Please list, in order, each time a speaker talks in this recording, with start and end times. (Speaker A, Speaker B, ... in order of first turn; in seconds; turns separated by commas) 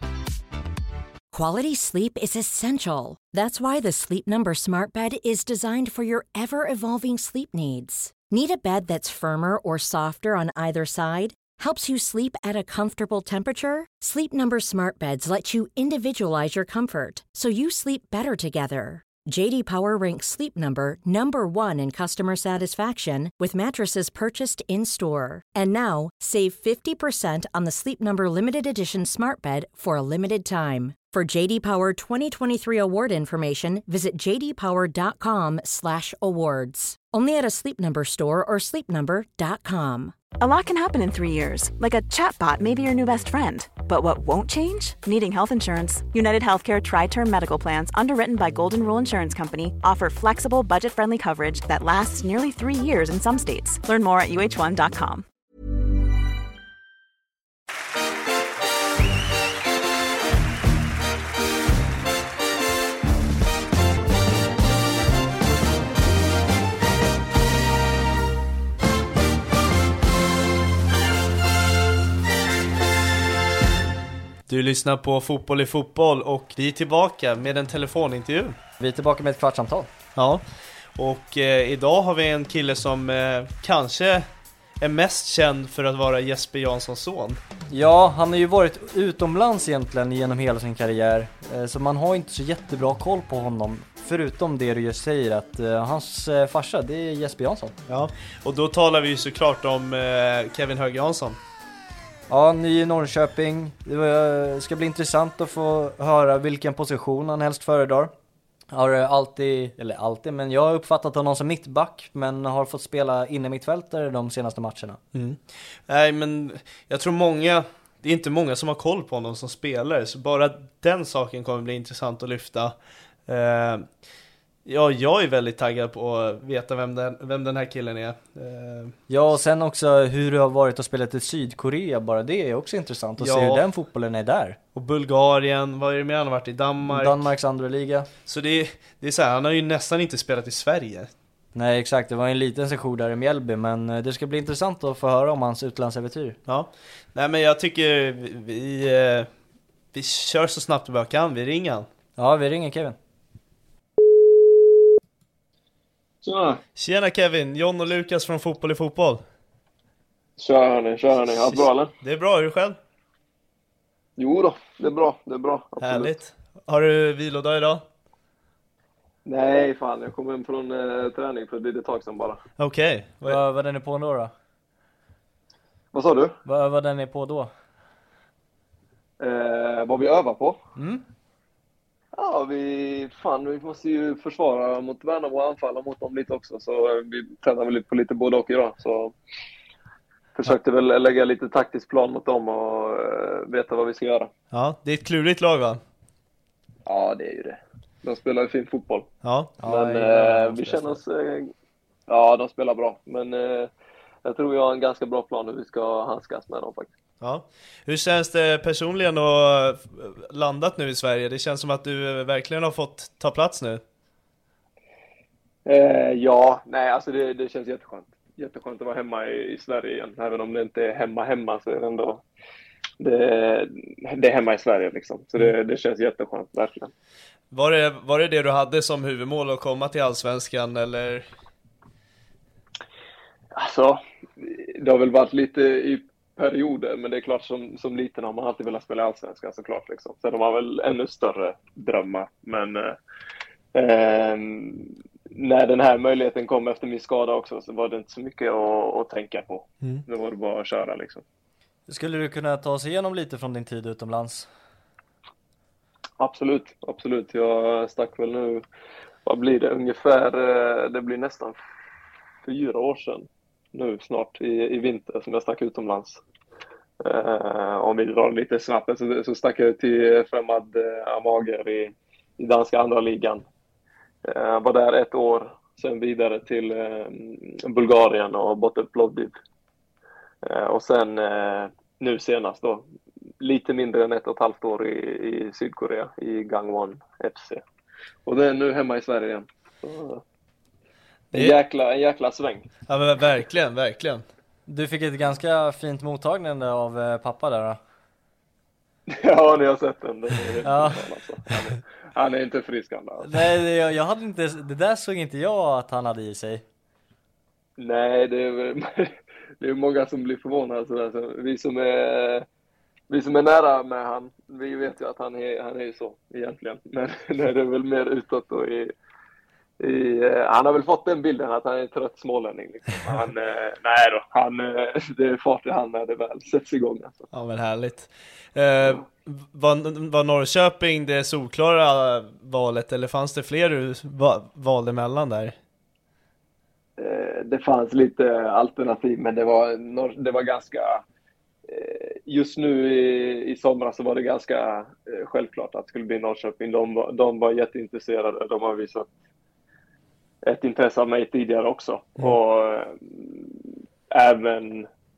Speaker A: 1.3-40.2, Speaker B: 40.4-55.2, Speaker C: 74.5-78.6, Speaker D: 78.8-79.9, Speaker C: 80.2-80.4, Speaker C: 81.0-84.3, Speaker C: 84.8-87.4, Speaker D: 87.7-97.8, Speaker C: 97.9-101.4, Speaker D: 102.3-108.1, Speaker D: 108.7-115.0, Speaker C: 115.1-122.8, Speaker C: 123.3-123.9, Speaker C: 124.7-129.0, Speaker D: 129.1-134.6, Speaker C: 133.2-133.7, Speaker C: 134.8-137.3, Speaker D: 136.9-138.1, Speaker C: 138.3-141.1, Speaker D: 141.6-146.4, Speaker C: 146.5-149.3, Speaker C: 149.9-151.9, Speaker D: 152.2-153.0, Speaker E: 156.2-156.5, Speaker C: 156.8-159.2, Speaker E: 160.4-161.9, Speaker C: 161.4-162.8, Speaker E: 164.2-166.1, Speaker C: 165.8-167.8, Speaker E: 169.2-172.4, Speaker C: 172.6-173.4, Speaker D: 173.2-174.3, Speaker E: 175.9-176.3, Speaker D: 176.4-177.5, Speaker E: 179.2-180.6, Speaker D: 180.8-181.0, Speaker E: 182.2-189.1, Speaker E: 190.3-194.3, Speaker C: 194.5-195.8, Speaker E: 196.9-199.0, Speaker C: 199.2-199.5, Speaker D: 199.6-201.0, Speaker E: 199.7-201.5, Speaker E: 202.1-203.7, Speaker E: 204.2-206.9, Speaker C: 207.2-213.8, Speaker E: 215.7-222.2, Speaker E: 223.0-226.9, Speaker C: 227.5-231.3, Speaker E: 233.6-242.9, Speaker E: 243.8-251.2, Speaker D: 251.9-254.5, Speaker E: 256.2-258.6, Speaker E: 259.3-261.6, Speaker E: 262.5-266.2, Speaker E: 267.0-273.5, Speaker E: 274.3-279.3, Speaker E: 280.5-282.8, Speaker E: 283.4-287.6, Speaker E: 288.3-290.2, Speaker E: 291.3-292.6, Speaker C: 292.9-294.3, Speaker D: 294.7-297.8, Speaker E: 299.3-303.3, Speaker D: 300.6-301.1, Speaker D: 303.2-306.6, Speaker E: 307.8-309.1, Speaker E: 309.6-312.4, Speaker E: 313.1-318.9, Speaker E: 319.8-327.2, Speaker C: 327.3-335.6, Speaker E: 337.0-341.0, Speaker E: 341.7-349.1, Speaker E: 350.5-353.5, Speaker E: 354.1-354.9